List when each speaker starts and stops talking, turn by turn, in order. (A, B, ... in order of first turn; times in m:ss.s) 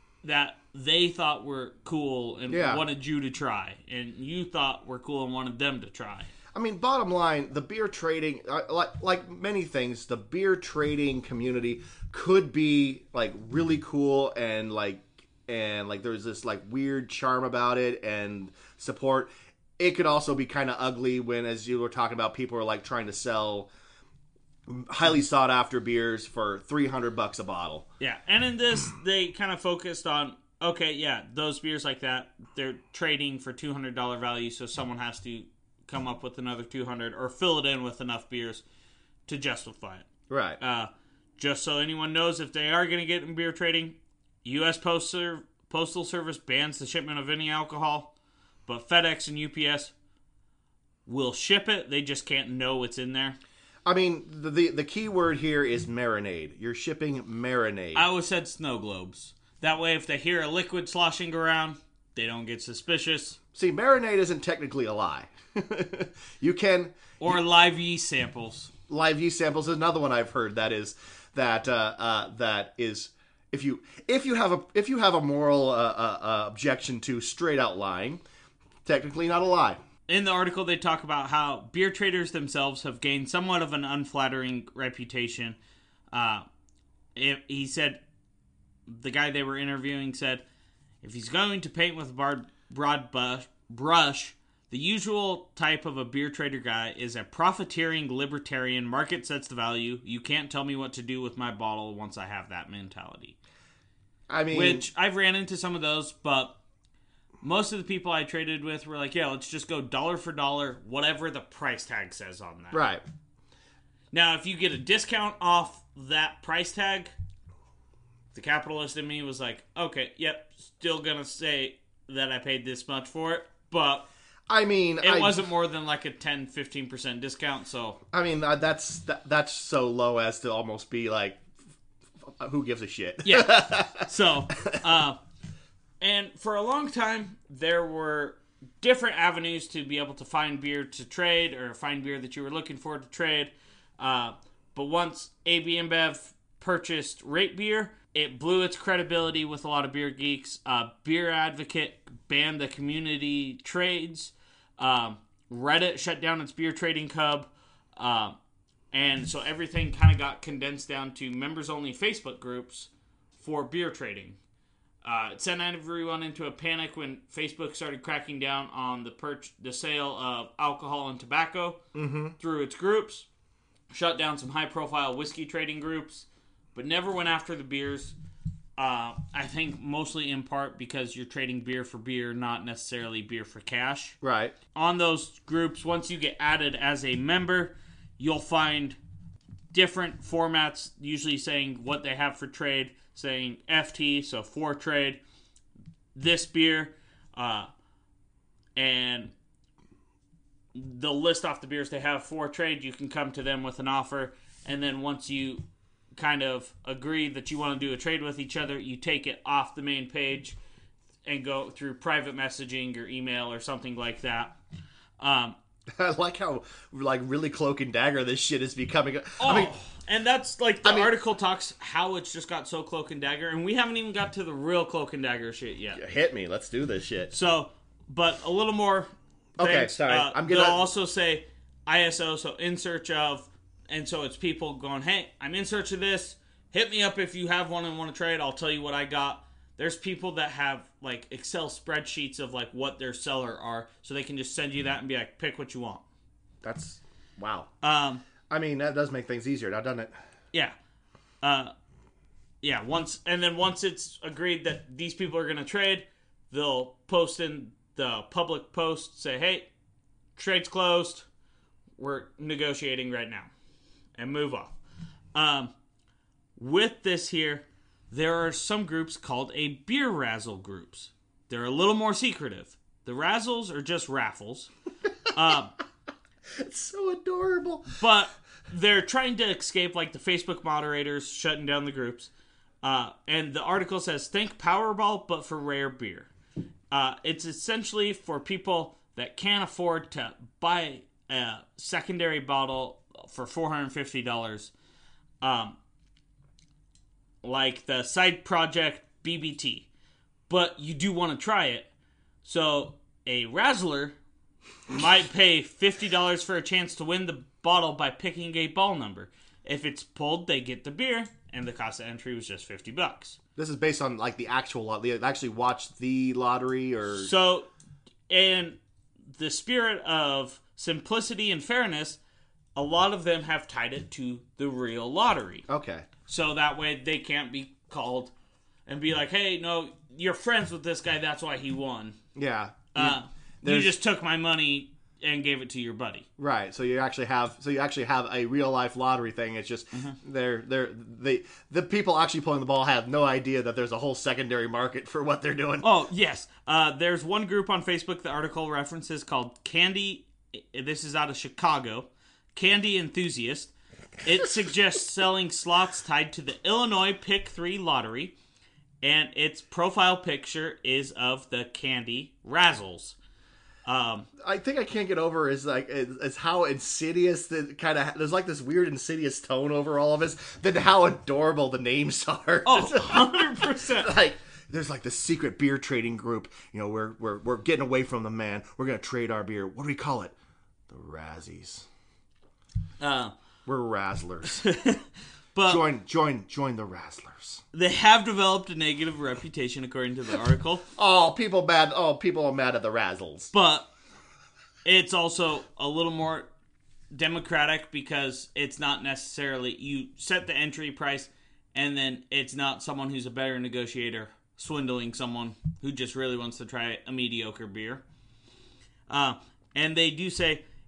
0:00.2-0:06.3 A
0:02.5-0:02.8 B
0:06.5-0:23.7 B
0:24.7-0:27.8 B
0:28.0-0:38.6 A
0:39.3-0:40.1 A
0:40.3-0:40.6 B
0:40.6-0:48.1 A
0:48.7-0:49.9 A
0:51.0-0:53.4 A
0:53.8-0:58.0 B
0:57.9-1:03.4 A
1:03.5-1:07.4 B
1:07.2-1:08.7 A
1:08.9-1:18.2 B
1:18.8-1:19.8 B
1:20.1-1:25.6 A
1:26.1-1:26.4 A
1:27.1-1:28.0 A
1:28.9-1:30.4 A
1:31.0-1:43.3 A
1:44.3-1:44.9 B
1:44.5-1:46.6 A
1:47.4-1:52.8 A
1:52.7-1:53.0 B
1:54.1-1:57.1 A
1:58.3-2:04.1 A
2:04.5-2:05.3 B
2:05.0-2:08.0 A
2:08.1-2:11.4 B
2:12.2-2:14.8 B
2:13.2-2:15.2 A
2:16.0-2:38.4 A
2:38.9-2:44.4 A
2:45.0-2:51.8 A
2:51.9-2:52.4 B
2:52.4-2:53.3 A
2:53.9-2:58.1 A
2:58.8-3:04.2 A
3:04.2-3:04.5 B
3:04.7-3:09.0 A
3:09.7-3:15.2 A
3:16.1-3:17.7 A
3:18.8-3:19.3 A
3:20.7-3:25.6 A
3:26.1-3:30.6 A
3:31.2-3:34.6 A
3:35.2-3:35.6 A
3:35.9-3:39.7 B
3:39.4-3:46.0 A
3:40.8-3:41.1 B
3:45.9-3:47.3 B
3:47.3-4:06.0 A
3:49.6-3:50.8 B
4:06.6-4:07.7 B
4:07.8-4:08.2 A
4:08.5-4:10.1 B
4:11.4-4:11.7 A
4:12.6-4:19.7 A
4:20.4-4:21.3 A
4:22.0-4:23.5 A
4:24.2-4:24.8 A
4:25.3-4:25.7 A
4:26.6-4:34.7 A
4:35.3-4:35.7 A
4:36.6-4:37.9 B
4:37.9-4:42.3 A
4:42.8-4:46.3 A
4:46.9-4:54.7 A
4:55.4-4:55.8 A
4:57.4-4:59.9 A
5:00.5-5:01.9 A
5:02.4-5:04.2 A
5:04.9-5:13.4 A
5:13.6-5:17.3 B
5:17.1-5:17.7 A
5:18.3-5:18.8 A
5:19.3-5:22.2 A
5:22.7-5:25.6 A
5:25.7-5:26.1 B
5:26.3-5:28.3 A
5:28.9-5:32.2 A
5:32.3-5:33.9 B
5:32.9-5:36.2 A
5:36.4-5:45.9 B
5:45.8-5:53.7 A
5:54.2-5:58.3 A
5:59.0-6:03.2 A
6:03.8-6:04.3 A
6:04.4-6:20.3 B
6:12.6-6:14.1 A
6:20.9-6:21.9 B
6:23.0-6:23.3 A
6:23.6-6:24.6 B
6:24.4-6:25.8 A
6:25.7-6:27.6 B
6:27.7-6:30.8 A
6:31.0-6:33.5 B
6:33.5-6:33.9 A
6:34.8-6:36.5 A
6:37.1-6:48.0 A
6:49.1-6:50.6 A